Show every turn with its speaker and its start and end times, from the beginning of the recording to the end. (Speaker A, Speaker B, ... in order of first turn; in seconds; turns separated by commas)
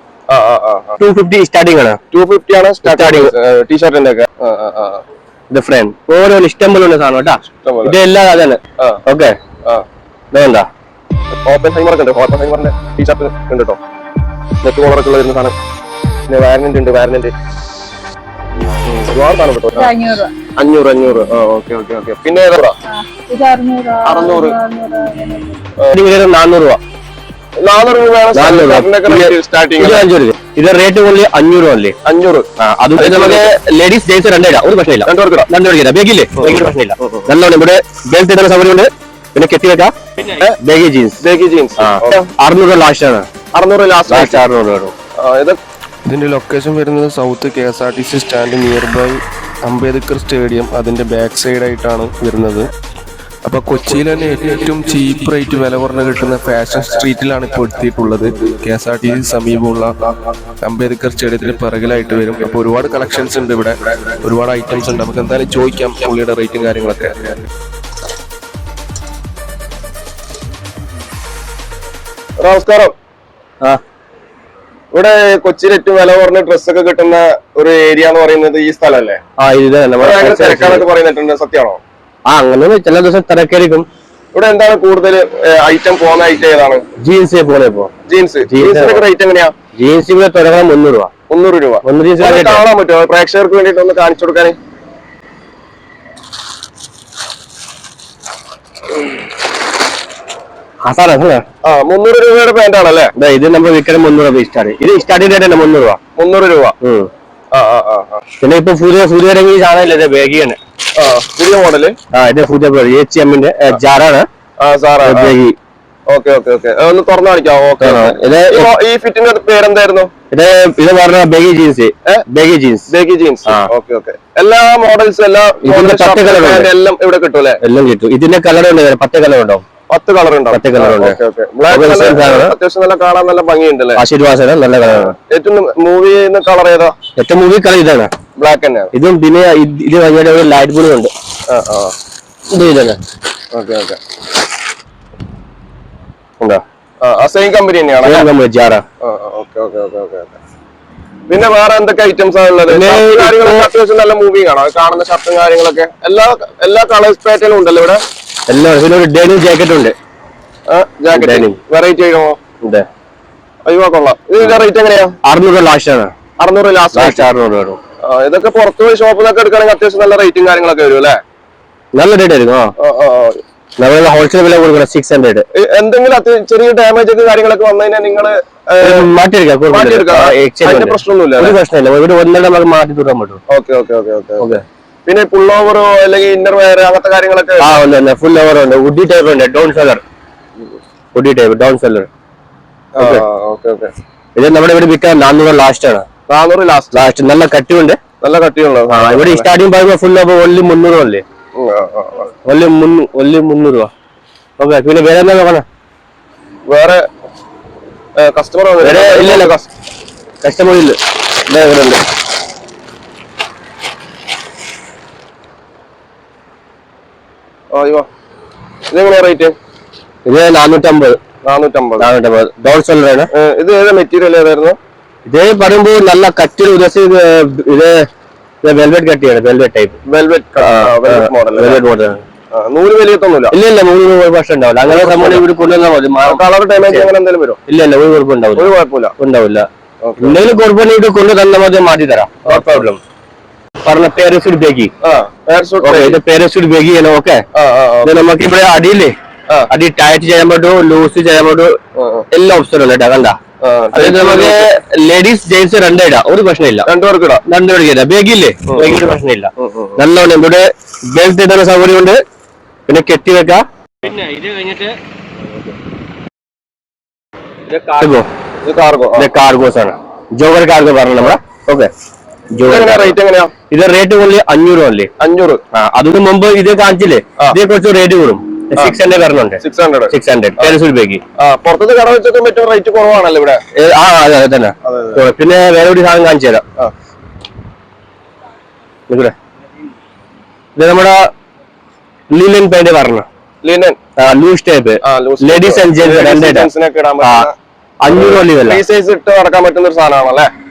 Speaker A: 0.3-1.0, Speaker B: 1.0-2.0, Speaker A: 2.1-5.0, Speaker B: 2.8-3.3, Speaker B: 5.5-9.4, Speaker A: 7.6-8.0, Speaker B: 10.3-10.7, Speaker A: 11.3-13.8, Speaker A: 14.6-15.6, Speaker A: 16.3-17.3, Speaker A: 18.9-19.9, Speaker C: 19.7-20.3, Speaker A: 20.6-22.8, Speaker C: 22.9-25.6, Speaker A: 24.1-24.6, Speaker B: 25.9-26.8, Speaker A: 27.6-30.1, Speaker B: 28.3-32.0, Speaker A: 32.0-33.5, Speaker B: 32.6-39.9, Speaker A: 35.1-35.5, Speaker A: 36.4-37.3, Speaker B: 40.6-41.2, Speaker A: 41.2-42.3, Speaker B: 41.8-43.3, Speaker A: 43.5-44.4, Speaker B: 44.1-44.9, Speaker A: 45.2-45.6, Speaker D: 46.1-52.7, Speaker D: 53.4-67.5, Speaker A: 72.4-72.9, Speaker A: 74.9-79.2, Speaker B: 79.4-80.9, Speaker A: 80.0-81.8, Speaker B: 82.3-83.9, Speaker A: 84.3-86.8, Speaker B: 87.0-87.9, Speaker A: 88.1-89.5, Speaker B: 88.5-89.0, Speaker B: 89.8-91.1, Speaker A: 91.3-94.6, Speaker B: 91.8-92.6, Speaker B: 100.8-101.5, Speaker A: 101.6-103.1, Speaker B: 103.2-106.0, Speaker A: 106.2-106.8, Speaker B: 106.8-107.1, Speaker A: 107.5-108.2, Speaker B: 108.4-110.6, Speaker A: 111.0-112.0, Speaker B: 112.1-114.3, Speaker A: 114.6-115.3, Speaker B: 115.0-115.6, Speaker A: 116.1-120.1, Speaker B: 117.8-118.7, Speaker B: 120.3-122.9, Speaker A: 122.9-127.6, Speaker B: 125.6-126.7, Speaker B: 127.6-129.6, Speaker A: 129.9-134.0, Speaker B: 130.5-131.2, Speaker B: 131.7-132.6, Speaker B: 134.0-135.2, Speaker A: 134.9-137.0, Speaker B: 137.2-138.1, Speaker A: 138.4-138.9, Speaker B: 138.9-141.1, Speaker A: 141.5-141.9, Speaker B: 142.5-143.0, Speaker A: 143.5-144.0, Speaker A: 147.0-148.3, Speaker B: 148.0-148.8, Speaker A: 149.0-150.4, Speaker A: 151.3-158.0, Speaker B: 152.7-153.7, Speaker B: 158.5-159.9, Speaker A: 160.7-162.4, Speaker B: 161.1-161.6, Speaker B: 162.6-162.9, Speaker A: 163.7-165.2, Speaker B: 165.2-166.1, Speaker A: 166.4-167.3, Speaker B: 166.9-167.8, Speaker A: 168.0-171.2, Speaker B: 171.9-172.7, Speaker A: 172.8-173.4, Speaker B: 173.8-175.5, Speaker A: 175.6-179.1, Speaker B: 178.8-183.4, Speaker A: 179.7-181.6, Speaker A: 183.5-184.5, Speaker A: 185.1-187.8, Speaker B: 187.6-190.0, Speaker B: 191.1-192.1, Speaker A: 193.0-193.9, Speaker B: 193.0-193.2, Speaker B: 194.4-196.1, Speaker A: 196.3-197.1, Speaker B: 196.9-198.0, Speaker A: 198.2-199.5, Speaker B: 198.9-201.2, Speaker A: 201.6-202.3, Speaker B: 202.4-203.9, Speaker B: 204.6-205.7, Speaker A: 206.7-207.1, Speaker A: 208.2-209.7, Speaker B: 208.8-209.5, Speaker B: 210.4-212.0, Speaker A: 217.7-218.1, Speaker A: 218.9-219.6, Speaker B: 220.2-221.2, Speaker A: 221.4-222.1, Speaker B: 222.0-223.3, Speaker A: 223.3-224.8, Speaker B: 225.3-228.1, Speaker B: 228.6-230.0, Speaker A: 230.1-231.8, Speaker B: 230.6-232.2, Speaker A: 232.5-233.6, Speaker B: 233.5-237.1, Speaker A: 234.9-235.4, Speaker A: 236.2-237.6, Speaker B: 237.7-239.7, Speaker A: 238.6-239.1, Speaker A: 240.0-240.4, Speaker B: 240.2-243.0, Speaker A: 242.5-242.8, Speaker B: 243.8-244.9, Speaker A: 245.0-246.2, Speaker B: 245.8-247.4, Speaker A: 247.5-248.1, Speaker B: 248.0-249.2, Speaker B: 249.7-251.8, Speaker A: 252.0-252.3, Speaker B: 252.3-253.4, Speaker A: 253.6-254.6, Speaker B: 253.9-256.9, Speaker A: 256.9-257.4, Speaker B: 257.5-262.2, Speaker A: 258.7-258.9, Speaker A: 259.6-260.0, Speaker B: 262.9-264.9, Speaker B: 267.7-268.3, Speaker A: 268.6-269.3, Speaker B: 269.2-271.9, Speaker B: 272.5-273.2, Speaker A: 272.6-273.5, Speaker B: 273.7-275.1, Speaker A: 275.2-275.6, Speaker B: 275.7-281.2, Speaker A: 279.6-280.8, Speaker A: 281.4-283.6, Speaker B: 283.8-286.6, Speaker A: 284.9-285.2, Speaker B: 289.1-289.4, Speaker B: 290.8-291.3, Speaker B: 292.3-293.3, Speaker A: 293.6-294.0, Speaker B: 294.2-296.7, Speaker A: 295.1-297.5, Speaker B: 297.2-297.5, Speaker B: 298.0-298.8, Speaker A: 298.1-300.5